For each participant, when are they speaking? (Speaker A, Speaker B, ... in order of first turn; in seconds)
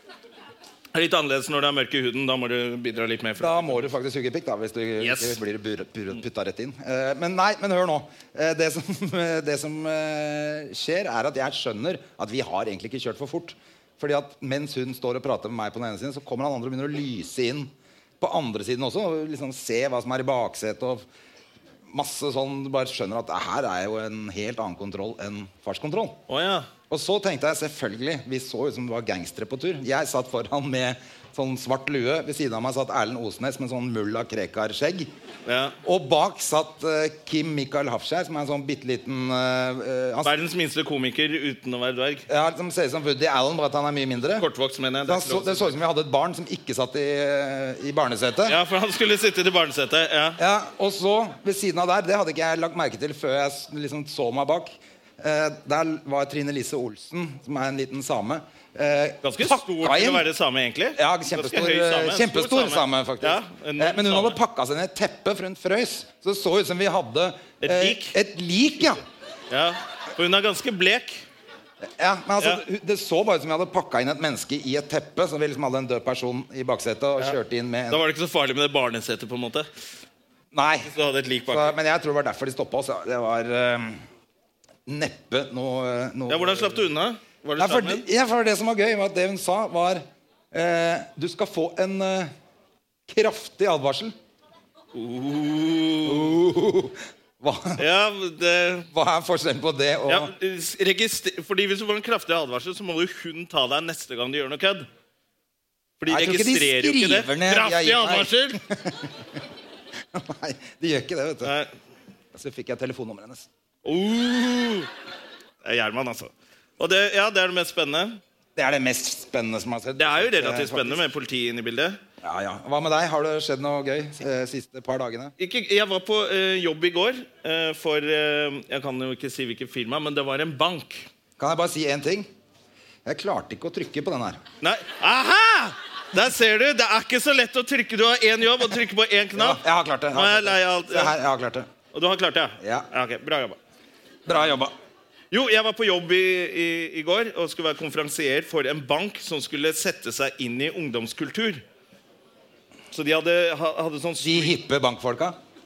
Speaker A: 0.9-3.8, 5.0-5.4, 26.3-26.7, 35.5-35.8, 40.2-42.2, 44.4-45.7, 48.4-50.4, 59.2-64.4, 67.6-68.1, 69.5-71.2, 77.9-79.7, 80.9-81.8, 86.3-88.0, 94.9-96.3, 97.8-98.9, 100.0-104.9, 106.0-108.6, 111.4-111.7, 113.8-114.9, 115.6-118.2, 120.0-122.0, 125.4-131.1, 134.6-139.6, 140.1-141.1, 141.9-143.6, 145.3-151.6, 152.9-154.5
Speaker B: 3.4-21.0, 21.9-26.2, 26.9-35.1, 35.8-40.3, 42.3-44.5, 45.0-48.6, 50.4-60.3, 61.0-69.0, 71.8-78.0, 80.5-80.9, 81.5-84.0, 84.8-86.8, 87.6-92.3, 93.1-94.1, 96.0-97.8, 98.9-100.3, 106.1-109.2, 110.1-111.5, 112.3-113.5, 118.5-121.0, 122.2-125.3, 131.4-132.3, 133.1-134.4, 139.3-141.7, 142.6-142.9, 144.2-144.7, 154.2-155.4